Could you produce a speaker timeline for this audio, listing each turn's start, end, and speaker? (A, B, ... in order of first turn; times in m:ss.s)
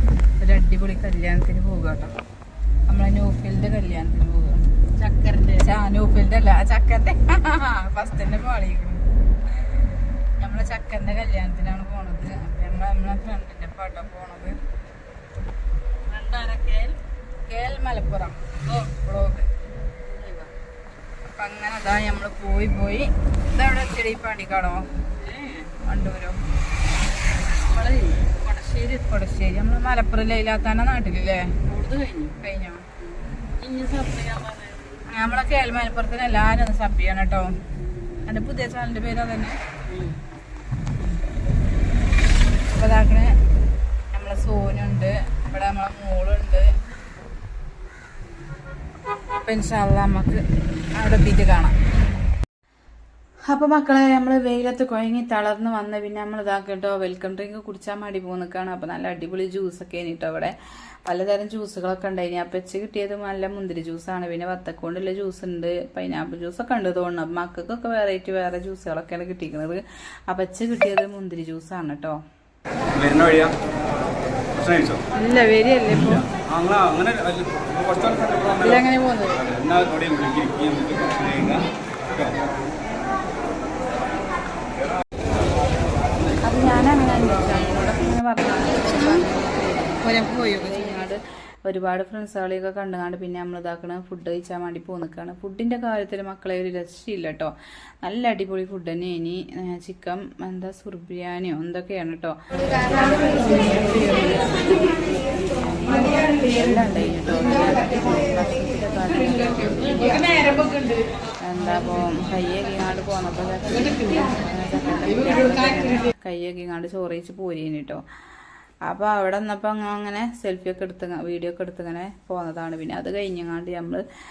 0:00.4-0:02.1 A
0:02.9-0:04.7 A
0:05.0-0:05.7 B
0:05.6-0:09.0 A
0:10.4-0:14.6 A
0:16.0-0:17.0 B
0:17.4-0:19.5 A
0:20.0-0:20.5 B
0:21.3-0:25.0 A
0:25.2-0:25.7 B
0:25.8-0:26.4 A
0:27.4-0:29.0 B
0:29.0-0:31.6 A
0:31.7-0:32.4 B
0:32.4-0:32.9 A
0:33.0-0:35.0 B
0:35.1-0:37.6 A
0:38.3-0:39.6 A
0:39.9-0:40.2 B
0:42.7-0:43.4 A
0:44.1-0:46.7 A
0:49.4-0:50.4 A
0:51.0-0:51.8 A
0:53.5-1:12.2 A
1:12.9-1:13.5 C
1:14.5-1:15.0 C
1:15.1-1:16.3 A
1:16.3-1:22.3 C
1:18.6-1:19.4 A
1:26.4-1:50.8 A
1:51.4-1:58.0 A
1:58.9-2:04.0 A